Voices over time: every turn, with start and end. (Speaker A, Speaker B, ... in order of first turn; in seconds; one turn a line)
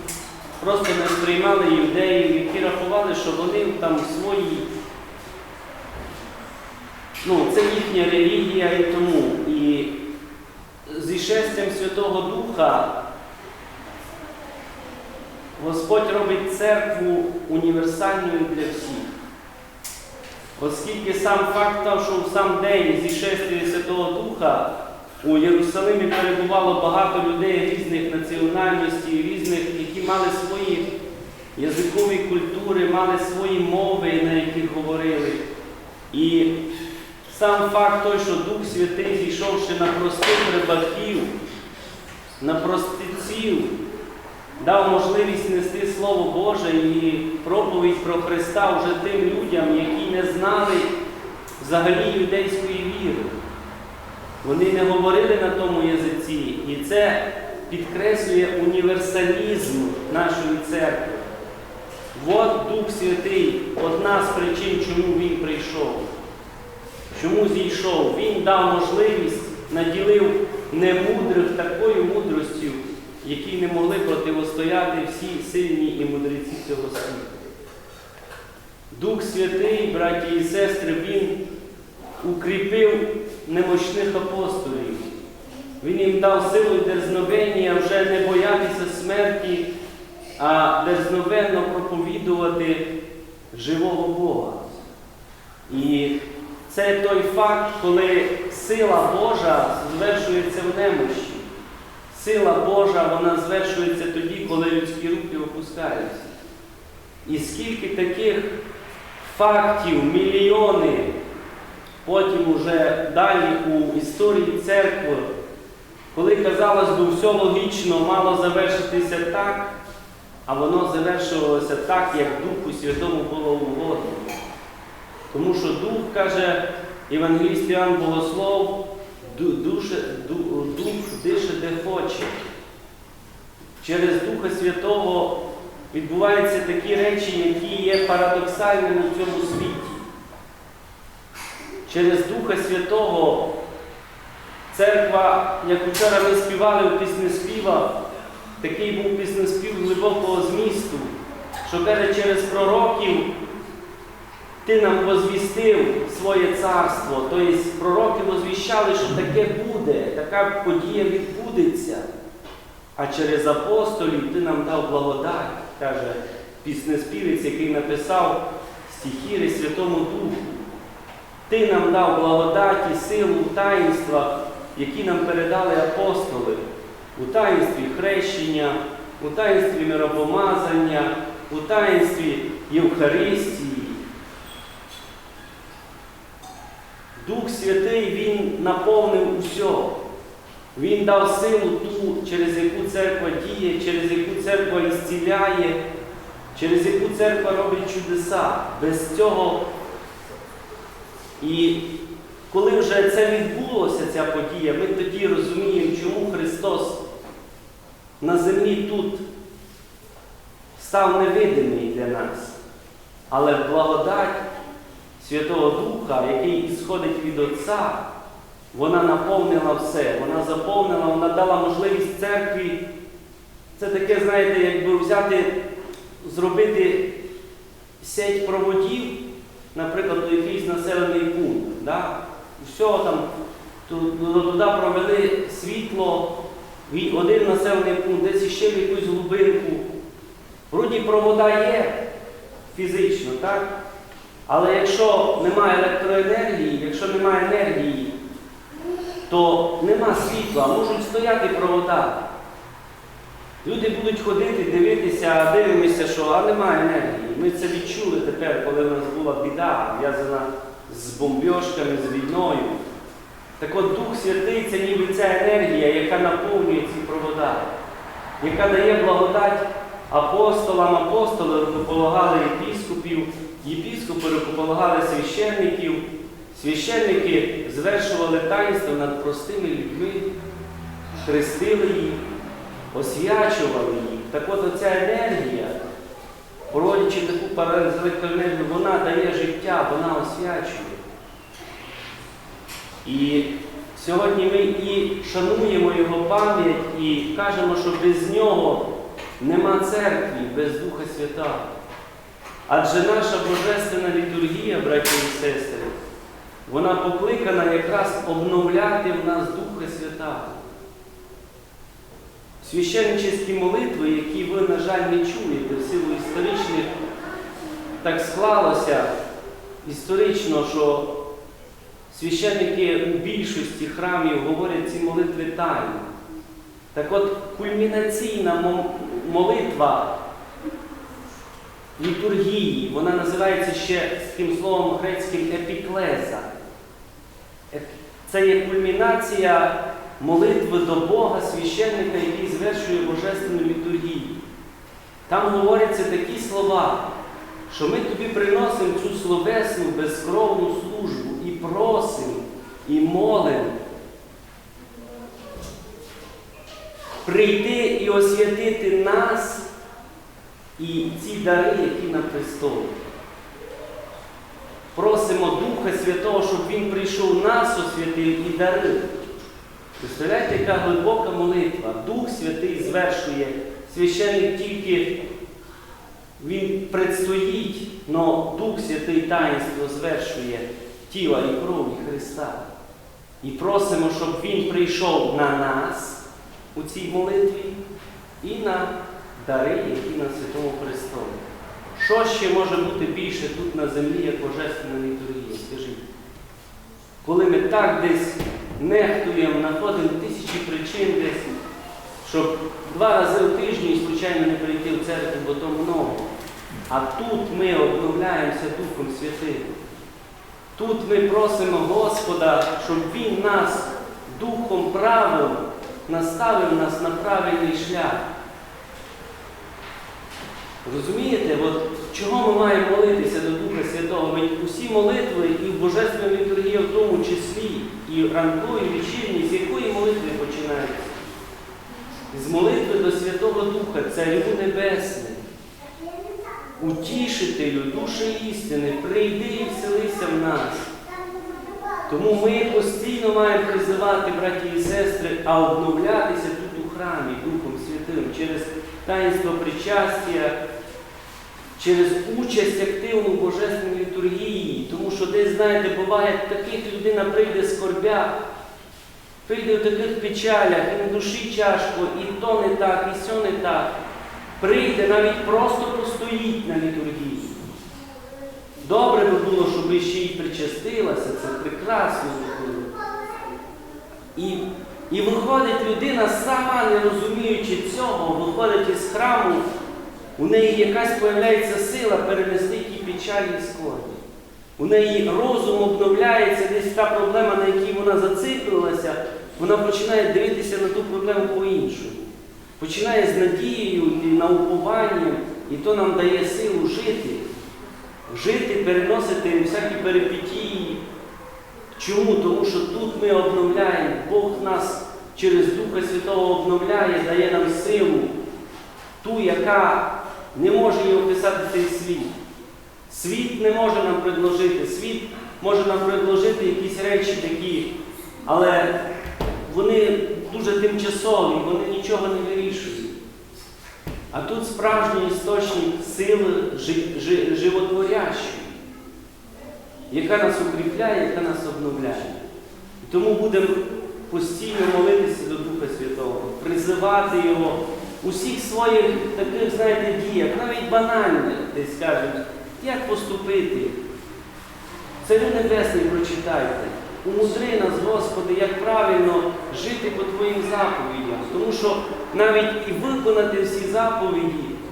Speaker A: 0.6-4.7
Speaker A: 7.2-9.9
Speaker A: 10.8-12.9
Speaker A: 15.6-19.1
Speaker A: 20.6-30.9
Speaker A: 31.6-35.4
Speaker A: 36.1-36.5
Speaker A: 37.2-41.3
Speaker A: 42.4-43.7
Speaker A: 44.6-50.9
Speaker A: 51.6-53.3
Speaker A: 54.4-61.3
Speaker A: 62.1-66.1
Speaker A: 67.1-77.4
Speaker A: 78.9-81.3
Speaker A: 82.2-85.1
Speaker A: 85.8-89.7
Speaker A: 90.4-92.8
Speaker A: 93.5-94.8
Speaker A: 95.7-96.2
Speaker A: 96.7-101.5
Speaker A: 102.1-106.3
Speaker A: 107.2-108.5
Speaker A: 109.2-111.1
Speaker A: 112.0-115.3
Speaker A: 116.1-119.7
Speaker A: 120.5-124.3
Speaker A: 125.3-132.4
Speaker A: 133.8-135.4
Speaker A: 135.9-140.0
Speaker A: 141.8-143.5
Speaker A: 144.7-147.9
Speaker A: 148.6-151.1
Speaker A: 151.6-153.3
Speaker A: 154.6-162.1
Speaker A: 162.9-170.7
Speaker A: 171.5-176.6
Speaker A: 177.1-184.0
Speaker A: 187.2-189.9
Speaker A: 190.7-195.8
Speaker A: 196.5-199.6
Speaker A: 201.4-201.8
Speaker A: 202.5-207.0
Speaker A: 208.2-209.2
Speaker A: 210.8-212.6
Speaker A: 213.3-214.4
Speaker A: 215.2-218.0
Speaker A: 218.7-222.8
Speaker A: 223.8-225.5
Speaker A: 226.2-227.1
Speaker A: 228.0-229.1
Speaker A: 229.7-233.3
Speaker A: 233.8-236.3
Speaker A: 236.9-239.8
Speaker A: 240.7-242.0
Speaker A: 242.7-243.7
Speaker A: 244.5-248.1
Speaker A: 249.3-252.2
Speaker A: 253.6-262.8
Speaker A: 263.6-267.7
Speaker A: 268.4-280.3
Speaker A: 281.2-282.2
Speaker A: 282.9-285.8
Speaker A: 286.7-291.0
Speaker A: 293.0-298.9
Speaker A: 299.4-301.7
Speaker A: 302.7-305.9
Speaker A: 306.6-310.5
Speaker A: 312.6-316.9
Speaker A: 318.0-319.1
Speaker A: 319.8-321.1
Speaker A: 322.1-326.1
Speaker A: 326.9-330.1
Speaker A: 332.0-336.5
Speaker A: 337.7-344.4
Speaker A: 345.3-347.1
Speaker A: 347.7-353.8
Speaker A: 357.2-359.7
Speaker A: 360.8-363.0
Speaker A: 364.9-369.1
Speaker A: 370.0-375.1
Speaker A: 376.4-382.6
Speaker A: 383.4-386.2
Speaker A: 386.7-387.8
Speaker A: 388.4-391.4
Speaker A: 391.9-396.0
Speaker A: 397.2-401.6
Speaker A: 402.2-406.3
Speaker A: 406.9-409.7
Speaker A: 410.8-418.2
Speaker A: 420.8-431.2
Speaker A: 432.3-435.4
Speaker A: 436.8-440.8
Speaker A: 442.1-450.5
Speaker A: 451.8-458.3
Speaker A: 459.4-463.9
Speaker A: 464.6-467.6
Speaker A: 468.8-472.9
Speaker A: 474.4-479.6
Speaker A: 480.4-484.2
Speaker A: 484.8-492.2
Speaker A: 492.8-497.4
Speaker A: 498.3-501.0
Speaker A: 501.9-508.3
Speaker A: 509.2-512.3
Speaker A: 513.1-517.9
Speaker A: 518.4-518.9
Speaker A: 519.6-523.1
Speaker A: 524.3-528.7
Speaker A: 530.1-532.4
Speaker A: 533.0-544.0
Speaker A: 545.2-554.8